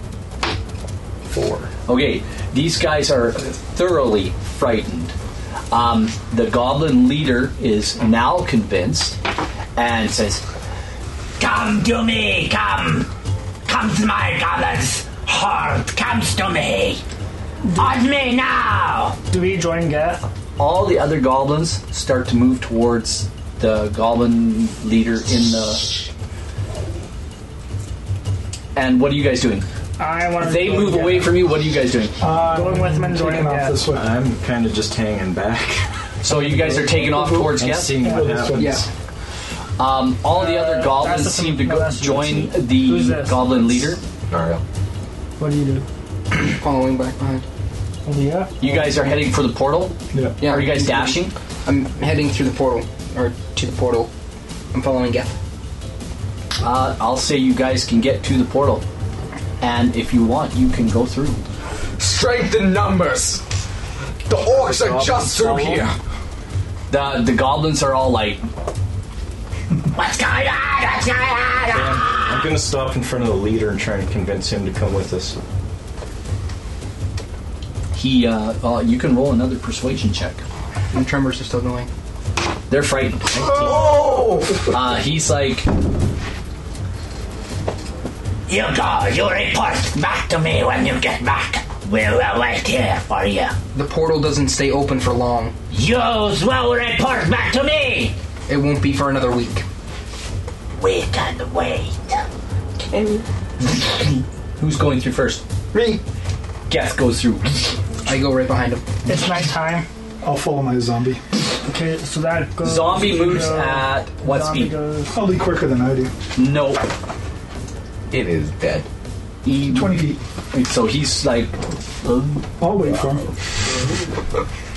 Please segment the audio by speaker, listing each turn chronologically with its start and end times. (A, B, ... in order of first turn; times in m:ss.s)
0:01.3-0:01.7 A
0:01.9-0:05.1 B
0:05.7-0:09.2 B
0:09.8-0:10.4 B
0:11.4-0:13.1 C
0:13.7-0:17.0 C
0:17.6-0:18.0 D
0:17.8-0:19.2 C
0:19.3-0:20.3 D
0:20.6-0:26.0 B
0:28.8-0:29.7 B
0:30.0-0:31.4 D
0:30.4-0:32.2 B
0:32.2-0:34.1 E
0:32.5-0:33.8 D
0:33.9-0:35.9 A
0:36.2-0:38.0 B
0:36.3-0:38.8 E
0:37.4-0:38.9 A
0:38.6-0:38.9 F
0:39.8-0:44.0 B
0:40.3-0:43.7 D
0:42.1-0:42.5 A
0:44.3-0:44.6 G
0:45.4-0:45.9 D
0:46.4-0:47.4 F
0:48.0-0:48.6 D
0:48.6-0:51.3 B
0:50.1-0:50.4 E
0:50.4-0:54.1 F
0:54.7-0:55.4 F
0:56.6-0:58.8 B
0:59.6-1:01.4 B
1:02.0-1:03.4 G
1:04.3-1:06.0 G
1:04.5-1:05.9 A
1:06.9-1:08.4 B
1:09.9-1:12.5 C
1:11.7-1:15.4 A
1:17.9-1:20.4 B
1:20.9-1:21.9 F
1:22.7-1:25.7 B
1:23.5-1:24.7 G
1:28.5-1:33.6 C
1:33.7-1:35.6 F
1:35.7-1:38.2 C
1:38.5-1:39.6 F
1:40.8-1:42.2 C
1:42.8-1:43.3 F
1:44.6-1:45.4 B
1:45.7-1:46.0 F
1:46.7-1:47.8 B
1:48.1-1:48.9 F
1:49.1-1:49.9 D
1:50.2-1:51.2 E
1:51.6-1:55.2 D
1:52.6-1:54.8 B
1:55.1-1:56.1 E
1:56.4-1:56.9 B
1:58.1-1:58.9 G
1:59.4-2:02.5 B
1:59.7-2:00.2 E
2:02.6-2:03.3 E